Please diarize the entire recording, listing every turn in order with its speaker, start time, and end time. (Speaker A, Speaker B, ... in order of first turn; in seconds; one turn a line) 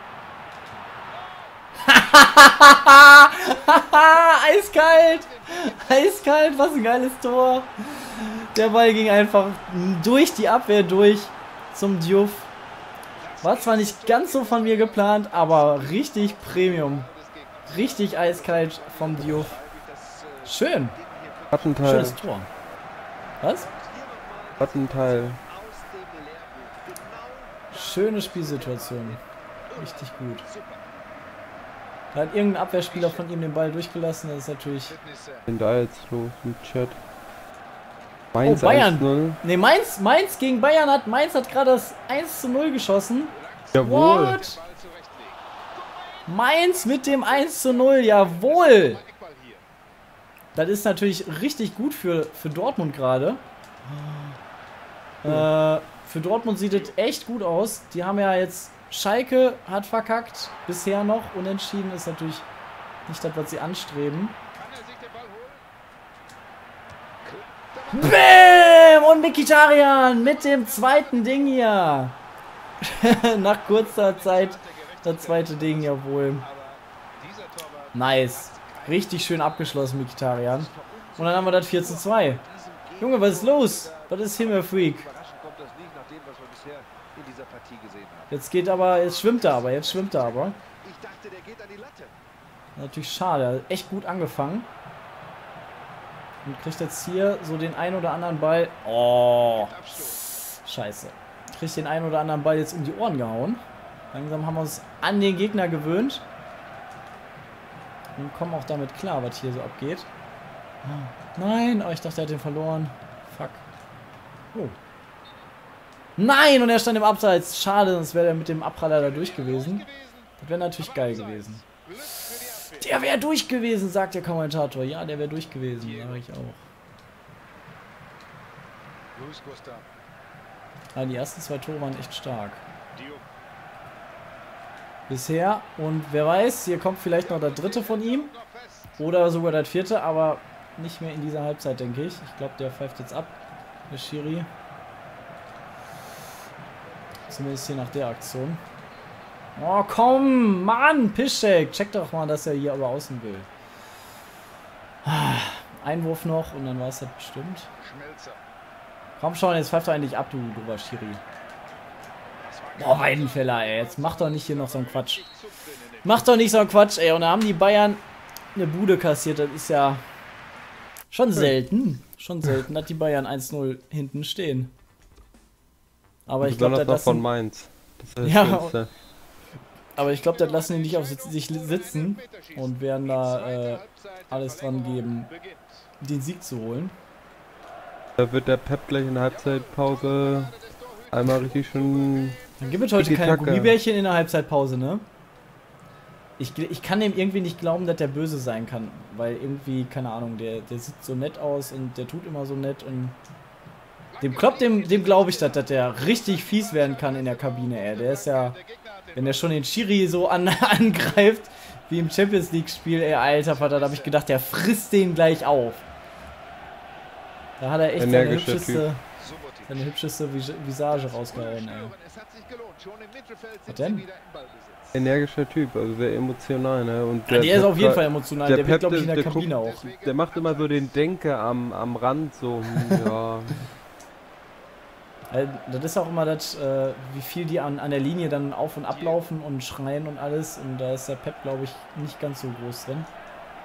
Speaker A: 1.1-1.6
Speaker B: 1.8-12.5
Speaker A: 3.2-6.0
Speaker A: 13.2-22.1
Speaker B: 13.4-17.1
Speaker B: 17.7-19.6
Speaker B: 20.4-21.0
Speaker C: 21.5-22.2
Speaker B: 21.8-22.5
Speaker B: 23.4-23.7
Speaker A: 23.6-30.8
Speaker C: 24.6-25.4
Speaker B: 27.7-29.2
Speaker B: 29.8-30.5
Speaker B: 32.1-35.0
Speaker A: 32.8-33.3
Speaker A: 34.9-35.5
Speaker C: 35.5-37.0
Speaker C: 38.3-39.4
Speaker B: 38.4-44.6
Speaker A: 43.3-49.6
Speaker C: 43.7-44.4
Speaker B: 46.3-49.0
Speaker B: 50.5-54.4
Speaker B: 55.2-62.5
Speaker A: 56.7-56.9
Speaker B: 63.1-64.4
Speaker A: 64.5-65.6
Speaker A: 67.2-69.0
Speaker B: 67.9-72.2
Speaker A: 70.4-71.4
Speaker B: 72.8-76.5
Speaker A: 73.6-79.1
Speaker B: 77.9-82.4
Speaker A: 80.5-88.3
Speaker B: 83.0-85.1
Speaker B: 88.3-90.6
Speaker A: 89.0-92.1
Speaker B: 92.8-94.7
Speaker B: 96.5-103.6
Speaker A: 99.5-100.3
Speaker B: 104.1-106.2
Speaker B: 108.2-110.1
Speaker B: 110.8-113.7
Speaker B: 116.2-119.9
Speaker A: 118.9-123.0
Speaker B: 120.4-121.6
Speaker B: 122.7-126.6
Speaker A: 125.8-126.2
Speaker A: 129.1-129.9
Speaker B: 130.9-132.6
Speaker A: 132.9-133.3
Speaker B: 135.1-138.3
Speaker A: 137.2-139.0
Speaker B: 139.0-143.4
Speaker B: 143.9-144.5
Speaker B: 147.3-148.6
Speaker B: 149.6-153.5
Speaker B: 155.0-157.7
Speaker A: 157.8-158.4
Speaker B: 159.2-161.2
Speaker A: 162.4-166.2
Speaker B: 162.8-165.3
Speaker B: 166.0-168.0
Speaker B: 168.6-170.0
Speaker B: 171.1-174.7
Speaker B: 176.3-177.3
Speaker C: 176.4-178.9
Speaker B: 178.2-178.8
Speaker B: 180.0-185.3
Speaker A: 180.0-185.9
Speaker B: 186.0-187.0
Speaker C: 188.2-190.5
Speaker A: 189.3-192.9
Speaker C: 191.1-192.4
Speaker B: 192.6-195.0
Speaker C: 193.0-193.8
Speaker B: 196.4-203.2
Speaker A: 204.1-209.6
Speaker B: 204.2-208.6
Speaker B: 209.2-215.9
Speaker A: 213.4-214.2
Speaker B: 217.6-219.0
Speaker C: 218.0-218.8
Speaker A: 219.2-219.9
Speaker B: 219.7-221.9
Speaker A: 220.9-225.0
Speaker B: 223.7-224.1
Speaker C: 224.9-233.7
Speaker B: 227.3-229.9
Speaker A: 229.1-230.9
Speaker B: 235.3-243.1
Speaker A: 238.9-239.3